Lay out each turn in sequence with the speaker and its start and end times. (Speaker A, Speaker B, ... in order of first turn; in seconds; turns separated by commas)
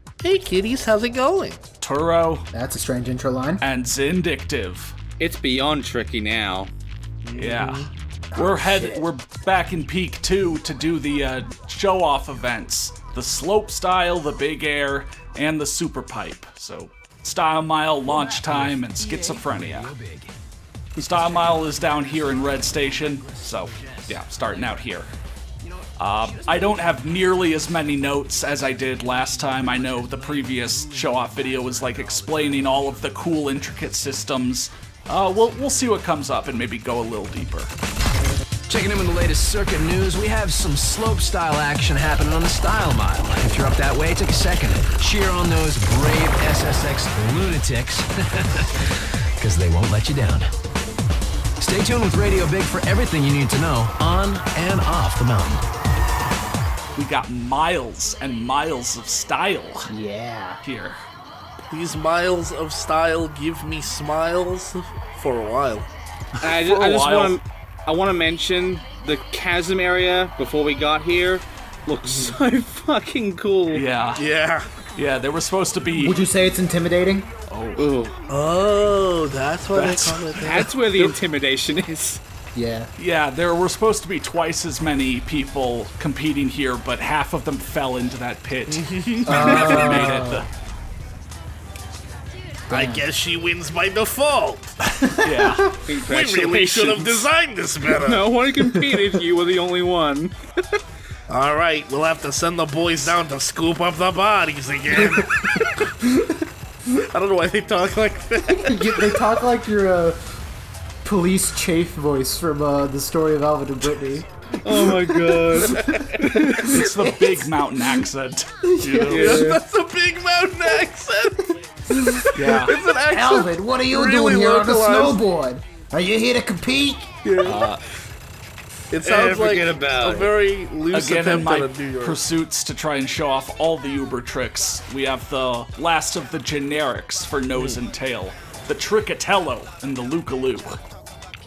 Speaker A: 0.2-1.6, Speaker B: 1.8-2.5, Speaker C: 2.5-3.6, Speaker B: 3.6-5.0, Speaker D: 5.2-6.7, Speaker A: 7.2-7.9, Speaker B: 7.3-19.9, Speaker C: 8.3-9.0, Speaker E: 18.1-20.3, Speaker B: 20.9-25.1, Speaker E: 21.0-25.0, Speaker E: 25.6-33.3, Speaker B: 26.0-37.7, Speaker E: 38.7-50.5, Speaker E: 51.6-55.6, Speaker B: 57.0-59.9, Speaker C: 59.9-60.6, Speaker B: 60.6-61.0, Speaker A: 61.7-65.9, Speaker B: 66.4-67.4, Speaker D: 66.4-73.8, Speaker A: 72.0-72.4, Speaker B: 73.7-74.2, Speaker A: 74.1-74.7, Speaker B: 74.9-76.2, Speaker C: 76.0-77.3, Speaker B: 77.5-77.8, Speaker D: 77.8-78.1, Speaker A: 78.3-80.7, Speaker B: 79.7-81.1, Speaker D: 80.4-82.2, Speaker C: 82.5-82.9, Speaker B: 83.0-90.5, Speaker A: 88.7-90.1, Speaker C: 89.3-90.5, Speaker D: 89.4-89.9, Speaker C: 92.7-93.0, Speaker A: 92.7-94.7, Speaker C: 95.0-95.8, Speaker B: 95.2-95.7, Speaker D: 95.8-97.3, Speaker A: 95.9-98.3, Speaker D: 97.9-100.3, Speaker C: 98.6-99.0, Speaker A: 101.3-105.8, Speaker C: 104.9-106.3, Speaker A: 106.9-109.3, Speaker C: 108.5-110.3, Speaker C: 111.0-118.0, Speaker D: 114.6-116.8, Speaker B: 116.5-119.5, Speaker C: 118.6-119.3, Speaker D: 119.0-119.6, Speaker A: 119.1-125.2, Speaker C: 121.9-122.3, Speaker B: 122.3-122.7, Speaker C: 123.1-127.2, Speaker A: 127.2-127.6, Speaker B: 127.4-127.8, Speaker A: 128.9-132.2, Speaker D: 129.0-130.4, Speaker B: 130.9-140.8, Speaker D: 137.5-137.8